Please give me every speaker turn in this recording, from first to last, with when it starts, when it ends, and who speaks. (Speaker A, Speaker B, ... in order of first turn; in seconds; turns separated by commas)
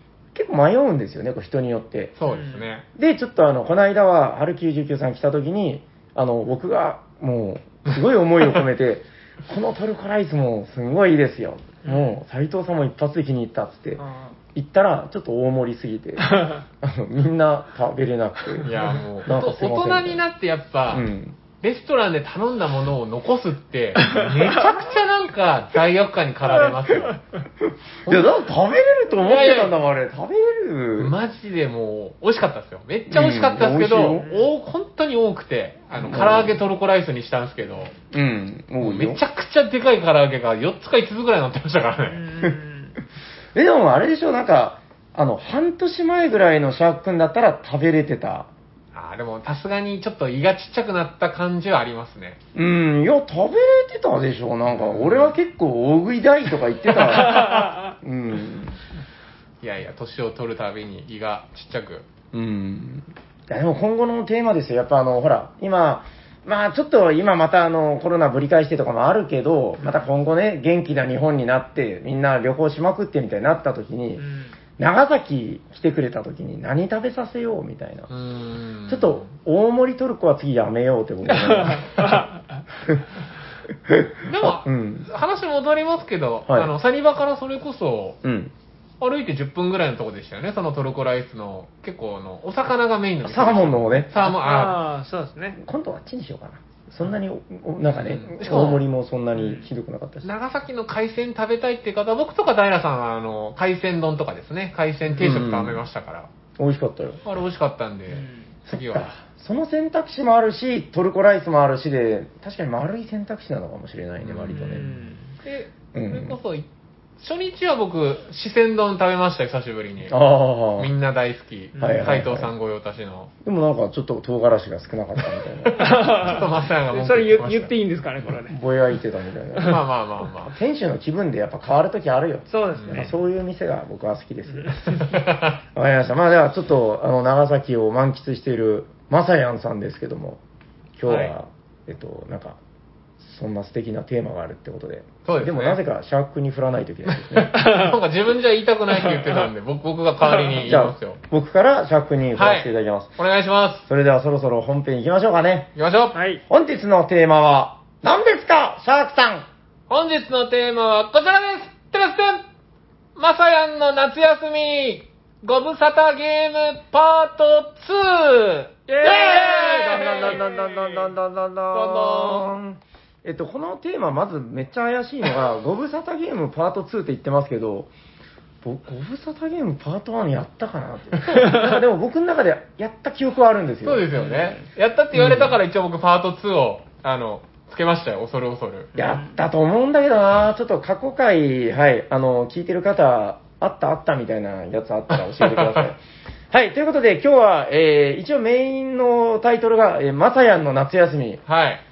Speaker A: 0.3-2.1, Speaker B: 2.2-2.8, Speaker C: 2.3-2.7, Speaker A: 3.0-14.0, Speaker C: 11.8-12.2, Speaker C: 14.0-14.4, Speaker A: 14.5-18.7, Speaker C: 16.2-16.6, Speaker B: 18.6-21.1, Speaker A: 19.2-20.2, Speaker A: 20.9-21.4, Speaker B: 21.6-27.2, Speaker C: 24.0-24.6, Speaker B: 28.1-28.4, Speaker A: 28.1-31.1, Speaker B: 29.2-29.8, Speaker B: 31.0-37.9, Speaker A: 33.1-34.2, Speaker C: 34.1-34.5, Speaker A: 36.0-36.5, Speaker A: 38.1-39.2, Speaker B: 38.8-42.2, Speaker C: 42.1-42.9, Speaker A: 43.5-48.5, Speaker B: 48.9-52.4, Speaker A: 52.5-58.8, Speaker B: 54.7-55.3, Speaker C: 57.0-57.9, Speaker B: 57.2-57.7, Speaker B: 59.6-62.0, Speaker A: 62.3-74.2, Speaker C: 74.2-74.5, Speaker A: 74.8-78.1, Speaker B: 78.1-79.3, Speaker A: 78.9-82.2, Speaker C: 81.3-82.4, Speaker A: 83.8-85.1, Speaker B: 84.2-88.2, Speaker A: 88.2-88.5, Speaker B: 89.0-94.8, Speaker A: 93.2-94.3, Speaker C: 94.2-95.6, Speaker A: 95.6-100.3, Speaker B: 97.9-98.8, Speaker C: 99.3-99.7, Speaker B: 100.2-106.3, Speaker A: 105.2-105.8, Speaker A: 106.6-107.2, Speaker B: 107.2-109.2, Speaker C: 108.1-108.5, Speaker A: 108.7-115.0, Speaker B: 114.2-114.8, Speaker C: 114.5-115.3, Speaker B: 115.4-116.7, Speaker A: 115.9-116.3, Speaker B: 117.2-120.2, Speaker A: 120.1-120.9, Speaker B: 120.8-123.3, Speaker C: 121.8-122.1, Speaker A: 121.8-122.5, Speaker A: 123.4-125.9, Speaker B: 125.6-127.7, Speaker C: 125.8-128.6, Speaker A: 128.5-129.8, Speaker B: 129.6-130.5, Speaker A: 130.4-135.1, Speaker C: 132.5-133.1, Speaker B: 132.8-133.1, Speaker C: 134.5-135.2, Speaker B: 134.9-135.6, Speaker A: 135.7-140.4, Speaker A: 141.0-142.6, Speaker C: 141.1-141.3, Speaker A: 143.2-147.6, Speaker B: 145.2-145.8, Speaker B: 147.1-151.2, Speaker C: 147.5-148.0, Speaker C: 149.1-149.4, Speaker A: 150.6-153.2, Speaker B: 152.3-153.8, Speaker A: 153.9-155.7, Speaker B: 155.8-156.2, Speaker C: 156.1-156.4, Speaker A: 156.5-159.5, Speaker B: 159.9-162.4, Speaker B: 163.2-170.5, Speaker C: 168.9-171.1, Speaker A: 169.4-177.9, Speaker B: 171.7-172.5, Speaker A: 178.6-184.1, Speaker B: 183.8-188.9, Speaker C: 184.1-184.6, Speaker A: 185.1-185.6, Speaker C: 188.9-189.4, Speaker A: 188.9-196.0, Speaker B: 195.4-195.9, Speaker A: 196.5-201.4, Speaker B: 201.4-201.8